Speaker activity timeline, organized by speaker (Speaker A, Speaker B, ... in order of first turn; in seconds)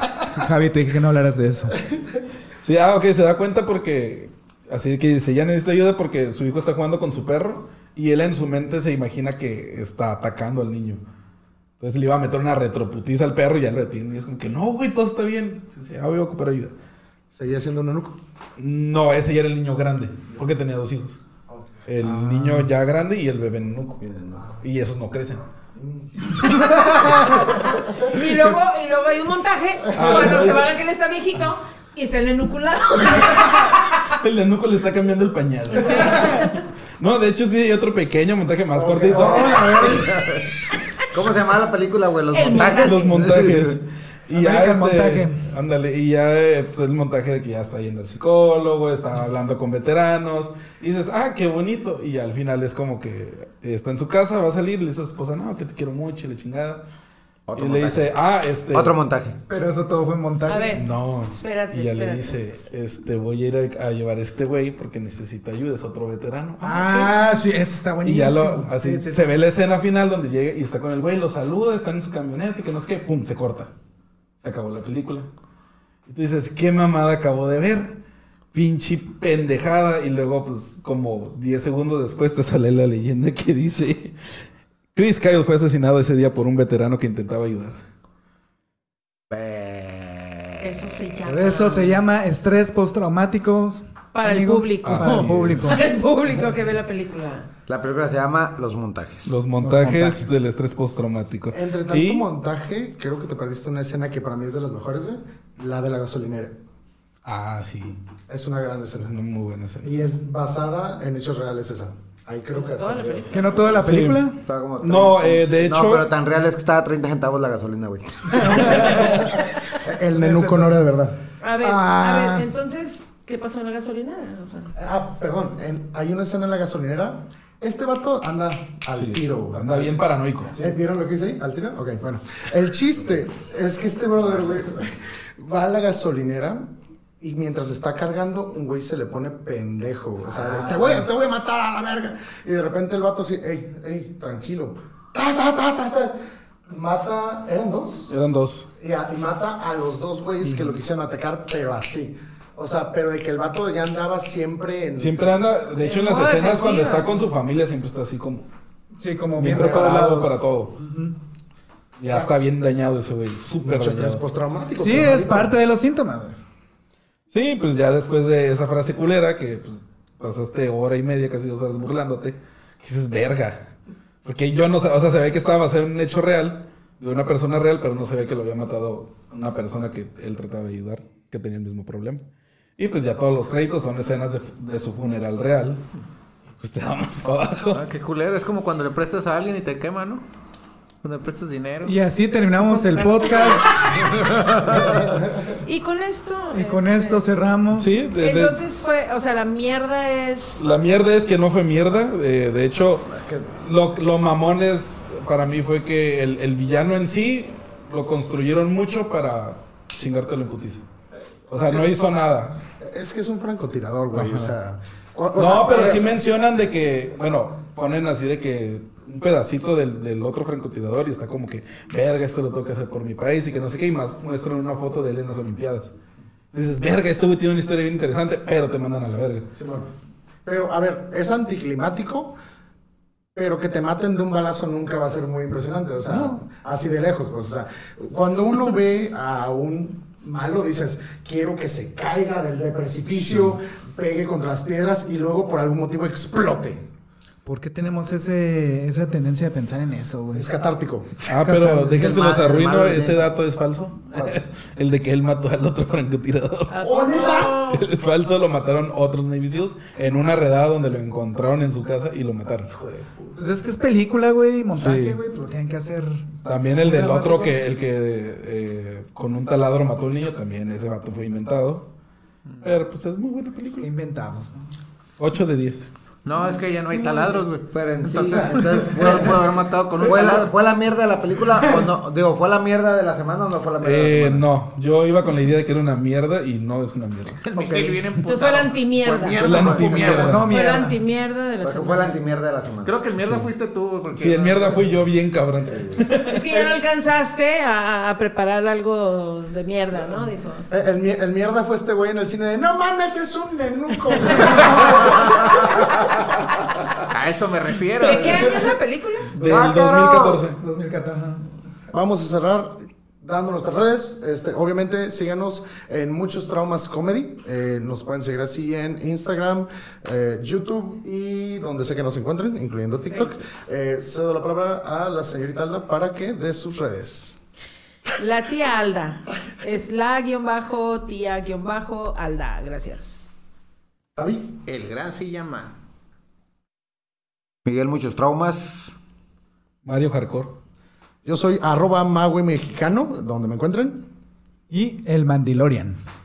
Speaker A: 0.3-1.8, 22.0-22.7, 26.5-27.1, 39.1-40.2, 44.3-45.5, 59.5-60.8, 66.6-69.3, 91.2-96.0, 99.6-100.5, 113.3-114.4, 118.3-119.3, 120.1-120.8, 121.6-122.5, 140.4-141.0, 159.0-161.2, 164.8-166.4, 191.8-193.7, 196.5-198.0, 247.4-250.5, 251.2-252.1, 263.4-267.6, 273.8-274.6, 290.1-291.0, 310.6-311.4, 344.7-346.0
Speaker B: 2.6-11.0, 11.8-16.7, 18.6-21.2, 21.9-25.4, 29.9-30.7, 33.3-39.9, 42.7-56.8, 57.5-59.0, 60.7-67.1, 68.0-73.7, 74.4-75.3, 76.1-78.0, 78.5-84.2, 84.9-87.8, 94.8-95.8, 99.2-102.3, 107.2-108.0, 109.0-109.9, 113.8-114.3, 114.8-116.1, 118.6-119.4, 128.9-130.6, 148.1-148.7, 150.4-150.8, 155.0-158.5, 159.4-160.8, 162.0-164.2, 167.3-173.7, 174.2-182.3, 182.8-185.8, 186.5-187.8, 197.7-198.6, 200.6-210.8, 211.5-212.6, 214.1-214.5, 215.3-225.9, 226.5-229.5, 236.1-236.4, 251.3-256.8, 257.6-262.8, 264.8-265.2, 266.4-271.9, 272.6-273.9, 275.2-275.9, 283.8-287.4, 289.4-290.6, 293.2-293.5, 294.1-296.6, 309.3-310.6, 339.9-340.6
Speaker C: 17.3-18.2, 21.5-21.8, 25.8-26.3, 38.7-40.1, 101.5-106.6, 108.3-109.2, 109.8-113.7, 118.8-121.2, 124.8-130.0, 130.6-136.7, 137.2-146.2, 146.7-148.1, 148.8-155.3, 163.6-165.5, 211.6-212.0, 212.8-216.1, 229.5-229.9, 230.4-232.3, 233.3-246.8, 250.3-251.2, 256.8-257.6, 262.8-263.4, 300.7-306.0, 311.9-327.4, 334.2-334.5, 341.2-344.1
Speaker D: 24.0-24.5, 39.8-40.5, 41.1-43.8, 57.5-58.1, 58.7-59.4, 89.3-90.9, 97.7-99.4, 114.3-118.6, 251.9-253.3, 277.7-284.5, 287.6-288.0, 289.1-290.0, 291.6-293.0, 295.7-296.0, 309.4-310.5, 337.6-338.9
Speaker E: 28.0-34.0, 35.8-36.6, 42.3-43.1, 60.5-62.3, 90.6-92.0, 94.1-97.5, 112.5-113.4, 121.4-124.8, 155.8-157.1, 195.6-197.3, 198.2-200.7, 256.7-257.9, 276.9-277.4, 288.2-292.2, 296.3-300.7, 308.0-309.3, 323.1-323.4, 328.2-333.3
Speaker F: 187.7-190.2, 191.0-191.9, 192.8-194.7, 276.2-280.5, 281.6-281.8, 287.4-290.4, 292.8-294.9, 307.1-308.7, 334.7-335.8